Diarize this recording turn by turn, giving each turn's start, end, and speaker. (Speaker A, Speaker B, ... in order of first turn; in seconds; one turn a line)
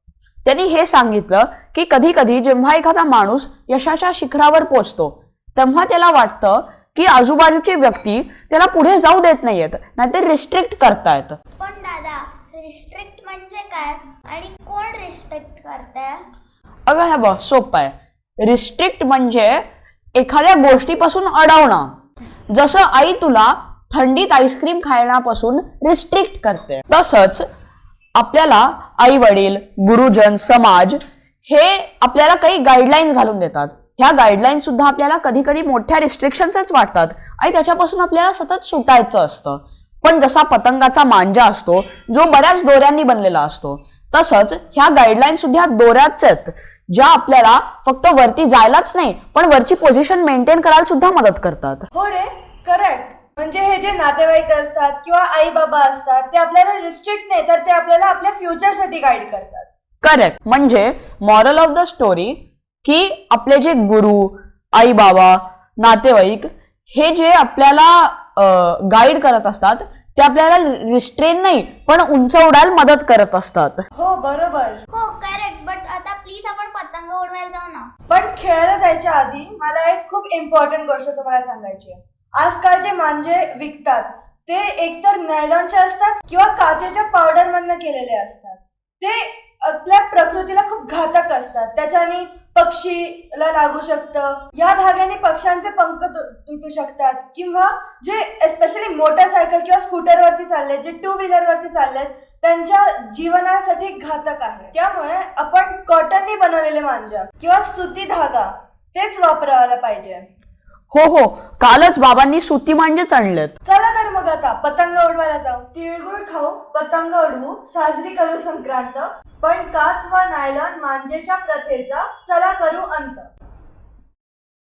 Speaker A: 0.4-11.4
Speaker B: 11.6-16.2
Speaker A: 16.9-19.6
Speaker A: 20.1-21.9
Speaker A: 22.5-27.4
Speaker A: 28.1-51.8
Speaker C: 51.9-59.7
Speaker A: 60.0-73.8
Speaker C: 73.9-74.8
Speaker B: 74.9-77.9
Speaker C: 78.1-110.2
Speaker A: 110.9-113.5
Speaker C: 113.6-123.3